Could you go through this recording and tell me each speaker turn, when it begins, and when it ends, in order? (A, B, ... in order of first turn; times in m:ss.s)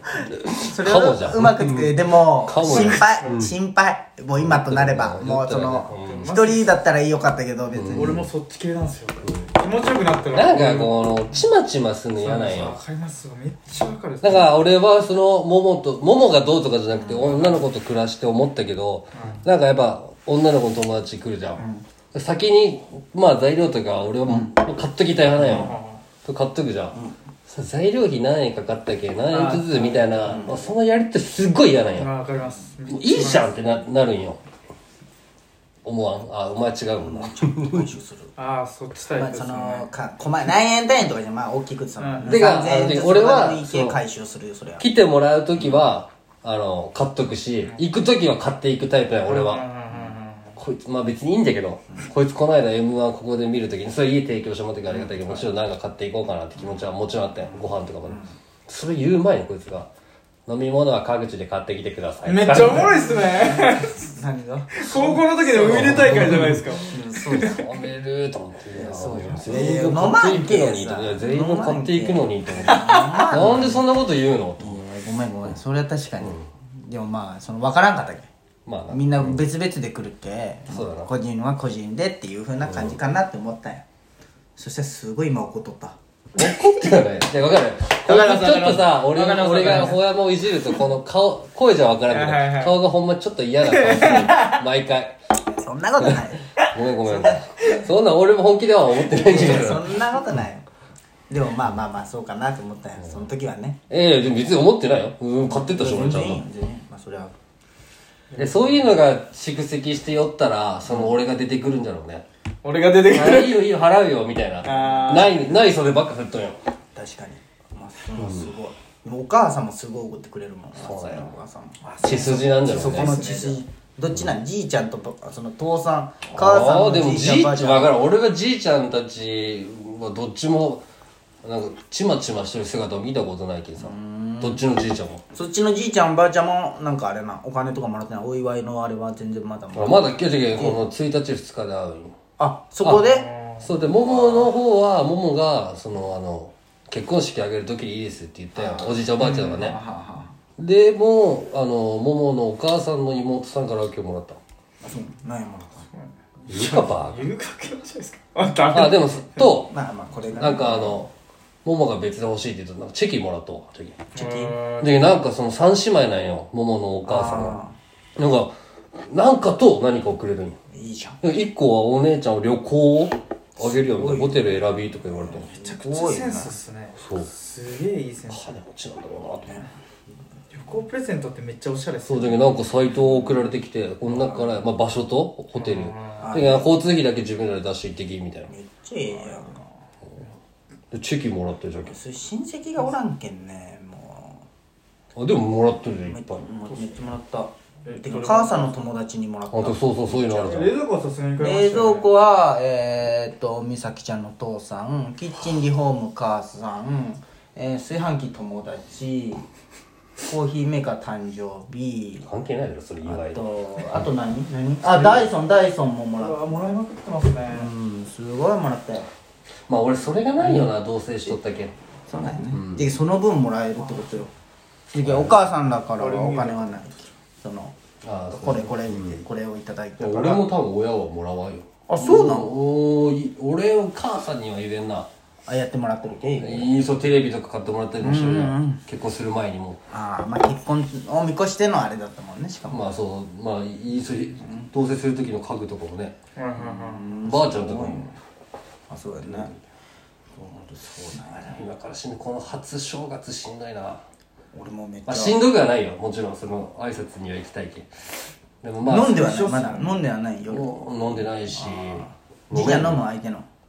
0:00.2-0:08.2 A
0:00.4-0:03.5 B
0:02.6-0:03.4 C
0:04.4-0:06.3 B
0:05.9-0:06.8 C
0:07.7-0:08.2 B
0:07.9-0:11.2 C
0:09.2-0:09.5 B
0:10.3-0:12.8 B
0:12.1-0:14.6 C
0:14.2-0:32.1 B
0:16.9-0:17.4 A
0:19.1-0:19.4 C
0:21.6-0:21.8 A
0:24.3-0:24.5 A
0:25.4-0:25.7 A
0:25.4-0:26.0 C
0:29.3-0:30.5 C
0:30.2-0:30.6 A
0:31.9-0:33.5 C
0:32.9-0:34.4 B
0:35.8-0:37.9 B
0:37.0-0:38.3 A
0:38.4-0:39.9 C
0:39.1-0:44.8 A
0:42.0-0:42.5 C
0:42.3-0:44.0 B
0:44.8-0:49.7 B
0:49.2-0:50.6 C
0:50.6-0:59.9 B
0:54.9-0:55.5 A
0:57.4-0:58.3 A
1:00.5-1:03.0 B
1:02.2-1:04.0 C
1:02.7-1:07.6 A
1:04.8-1:07.7 C
1:05.7-1:06.6 B
1:07.3-1:14.8 B
1:08.7-1:13.8 A
1:12.7-1:13.3 C
1:14.6-1:18.3 A
1:16.2-1:16.5 B
1:18.6-1:19.4 B
1:18.9-1:23.8 A
1:20.7-1:21.1 B
1:22.6-1:23.0 B
1:24.6-1:26.0 A
1:26.4-1:35.1 B
1:28.0-1:30.0 C
1:29.6-1:30.0 A
1:32.1-1:32.8 C
1:33.6-1:34.6 C
1:35.5-1:36.5 A
1:36.0-1:40.0 B
1:37.0-1:37.4 A
1:39.1-1:40.6 A
1:41.3-1:43.8 A
1:43.9-1:46.4 B
1:45.5-1:47.3 A
1:48.3-1:49.0 C
1:48.4-1:52.2 B
1:50.9-1:51.2 A
1:52.6-1:53.6 C
1:53.0-1:56.6 B
1:54.6-1:55.4 C
1:54.6-1:55.4 A
1:56.9-2:08.0 A
1:58.2-1:58.5 B
2:00.8-2:01.3 B
2:01.8-2:03.6 C
2:02.0-2:03.2 B
2:06.3-2:10.8 B
2:11.4-2:15.2 B
2:13.8-2:14.6 A
2:15.3-2:20.8 A
2:19.7-2:22.1 B
2:22.4-2:23.3 A
2:23.0-2:23.7 C
2:23.6-2:29.8 B
2:23.8-2:24.5 A
2:28.5-2:30.3 A
2:29.2-2:29.6 C
2:30.6-2:34.4 B
2:34.8-2:35.8 A
2:35.9-2:39.5 C
2:36.5-2:37.3 B
2:38.7-2:39.7 B
2:39.7-2:41.0 A
2:40.3-2:41.1 B
2:41.6-2:44.1 B
2:44.1-2:44.6 A
2:44.1-2:45.0 C
2:44.8-2:47.6 B
2:47.0-2:47.7 A
2:48.2-2:50.6 B
2:50.7-2:51.2 A
2:51.2-2:55.5 B
2:53.6-2:56.6 A
2:55.5-2:58.6 C
2:57.0-2:57.3 B
2:58.3-2:59.6 B
2:59.4-2:59.7 A
3:00.5-3:02.6 C
3:02.0-3:08.5 B
3:04.1-3:04.7 A
3:05.5-3:06.3 C
3:06.2-3:06.8 A
3:08.5-3:09.6 A
3:09.2-3:09.6 C
3:10.9-3:12.0 B
3:11.8-3:14.4 A
3:15.2-3:16.4 B
3:16.0-3:20.6 A
3:16.7-3:17.0 C
3:17.8-3:18.9 C
3:19.5-3:20.8 B
3:20.4-3:22.1 C
3:21.4-3:29.4 A
3:30.3-3:32.2 A
3:32.2-3:34.0 B
3:33.0-3:36.8 A
3:34.8-3:35.3 C
3:36.2-3:37.7 C
3:37.5-3:39.1 A
3:39.7-3:41.7 B
3:42.1-3:44.3 A
3:42.5-3:42.8 B
3:43.8-3:44.2 C
3:44.9-3:47.7 A
3:45.0-3:45.5 B
3:46.0-3:46.9 C
3:48.0-3:49.2 B
3:48.3-3:50.4 A
3:50.0-3:55.1 B
3:51.9-3:52.5 A
3:55.4-3:56.8 A
3:56.4-3:59.8 B
3:58.0-3:58.8 A
3:59.9-4:03.0 A
4:02.7-4:06.2 B
4:04.4-4:04.7 A
4:06.4-4:07.1 C
4:06.6-4:08.2 A
4:07.1-4:08.1 B
4:08.9-4:09.6 A
4:09.2-4:09.6 B
4:10.3-4:11.6 A
4:11.3-4:14.0 B
4:14.5-4:15.4 A
4:15.1-4:17.9 B
4:18.6-4:19.9 B
4:18.8-4:20.9 A
4:19.2-4:19.8 C
4:20.5-4:23.0 B
4:21.5-4:23.5 A